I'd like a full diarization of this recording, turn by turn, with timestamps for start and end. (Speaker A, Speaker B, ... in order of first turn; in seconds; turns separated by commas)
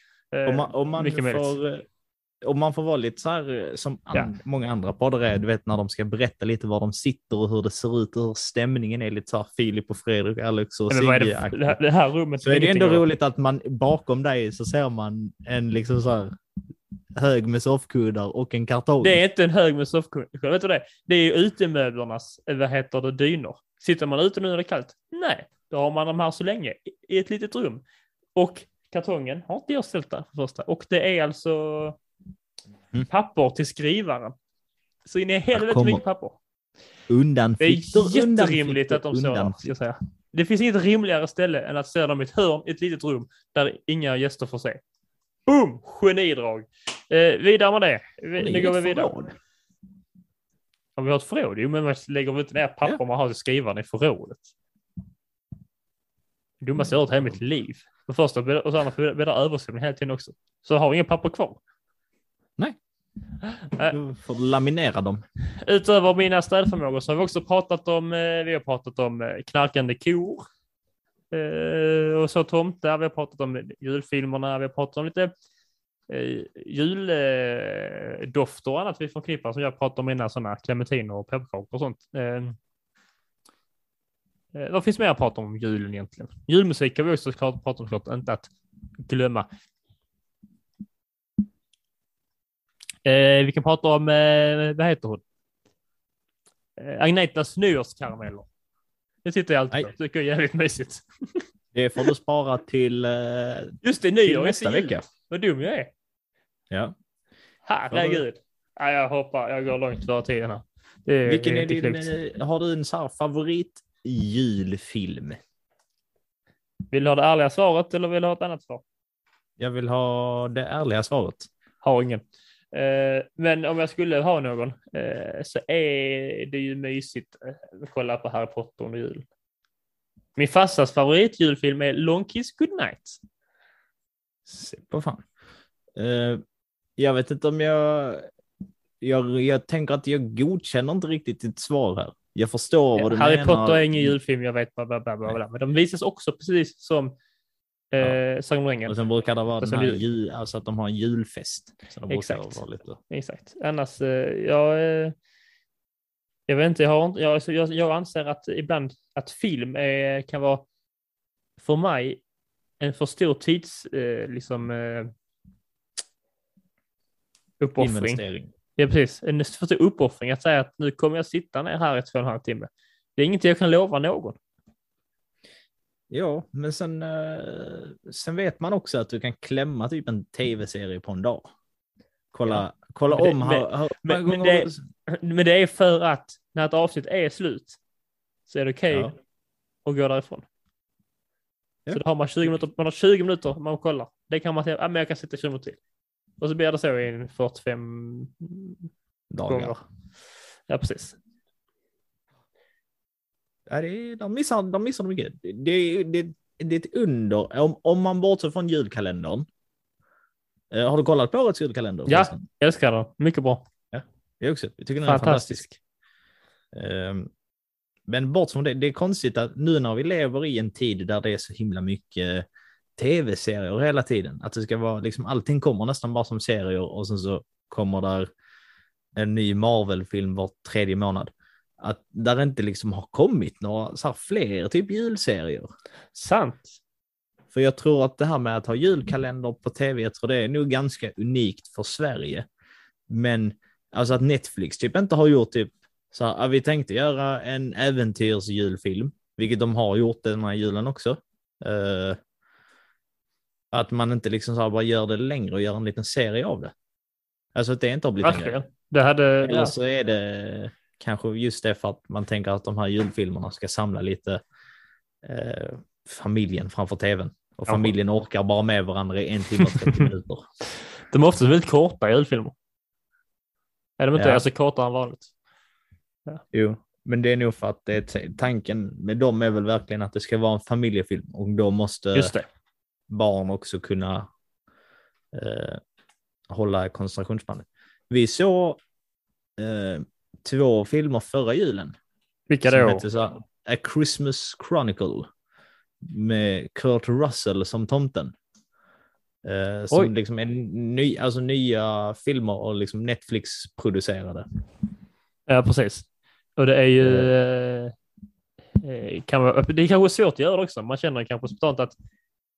Speaker A: 0.3-1.6, Speaker B: 0.5-1.9, Speaker B: 2.4-11.8, Speaker A: 10.9-13.0, Speaker B: 12.4-16.4, Speaker B: 17.1-19.2, Speaker A: 19.0-27.8, Speaker A: 28.4-32.0, Speaker A: 33.1-34.4, Speaker A: 35.1-36.4, Speaker B: 35.5-36.0, Speaker B: 37.1-39.7, Speaker A: 37.6-44.8, Speaker A: 45.5-49.1, Speaker B: 48.4-49.4, Speaker A: 51.0-54.4, Speaker A: 56.6-61.6, Speaker B: 63.9-65.2, Speaker A: 65.7-70.5, Speaker A: 71.3-75.3, Speaker A: 76.1-82.6, Speaker A: 84.5-88.5, Speaker A: 89.0-89.5, Speaker A: 93.0-95.2, Speaker A: 96.8-98.5, Speaker A: 99.2-101.5, Speaker B: 101.7-105.0, Speaker A: 103.8-105.9, Speaker A: 107.7-112.1, Speaker B: 107.9-108.2, Speaker B: 111.3-115.4, Speaker A: 116.9-118.8, Speaker B: 119.6-121.5, Speaker A: 121.8-129.2, Speaker A: 130.4-133.2, Speaker B: 134.5-135.2, Speaker B: 136.0-136.4, Speaker B: 137.0-138.3, Speaker B: 139.0-144.2, Speaker A: 143.0-147.2, Speaker A: 147.9-149.0, Speaker B: 148.9-153.0, Speaker A: 149.6-150.0, Speaker A: 152.1-155.2, Speaker A: 156.5-160.6, Speaker A: 161.6-162.2, Speaker A: 162.8-165.1, Speaker A: 167.6-168.2, Speaker B: 167.8-168.5, Speaker A: 168.8-174.4, Speaker B: 176.1-181.5, Speaker B: 182.3-184.8, Speaker A: 182.4-187.8, Speaker A: 188.5-189.2, Speaker A: 189.8-190.4, Speaker B: 191.9-192.5, Speaker A: 191.9-195.8, Speaker A: 196.4-198.8, Speaker B: 199.3-199.8, Speaker A: 199.5-199.8, Speaker A: 200.7-201.2, Speaker B: 203.7-209.5, Speaker B: 210.7-212.4, Speaker A: 212.1-213.6, Speaker B: 213.9-215.7, Speaker A: 215.1-215.7, Speaker B: 216.7-217.3, Speaker B: 218.1-222.5, Speaker B: 223.0-228.3, Speaker B: 229.2-235.7, Speaker A: 236.2-236.7, Speaker B: 237.5-242.5, Speaker B: 243.1-252.2, Speaker B: 253.7-256.7, Speaker B: 257.6-258.6, Speaker A: 258.2-259.7, Speaker B: 259.4-264.4, Speaker B: 265.2-270.5, Speaker A: 267.7-267.9, Speaker A: 269.6-270.1, Speaker A: 271.1-272.5, Speaker A: 274.0-275.3, Speaker B: 274.1-274.4, Speaker B: 276.5-282.3, Speaker A: 282.1-282.5, Speaker B: 283.1-284.3, Speaker B: 285.3-285.8, Speaker B: 286.5-288.8, Speaker B: 289.6-291.9, Speaker A: 292.5-293.0, Speaker B: 292.7-295.3, Speaker B: 296.0-298.3, Speaker B: 299.4-304.5, Speaker A: 305.5-306.1, Speaker A: 306.6-307.9, Speaker B: 307.0-307.3, Speaker A: 308.8-311.9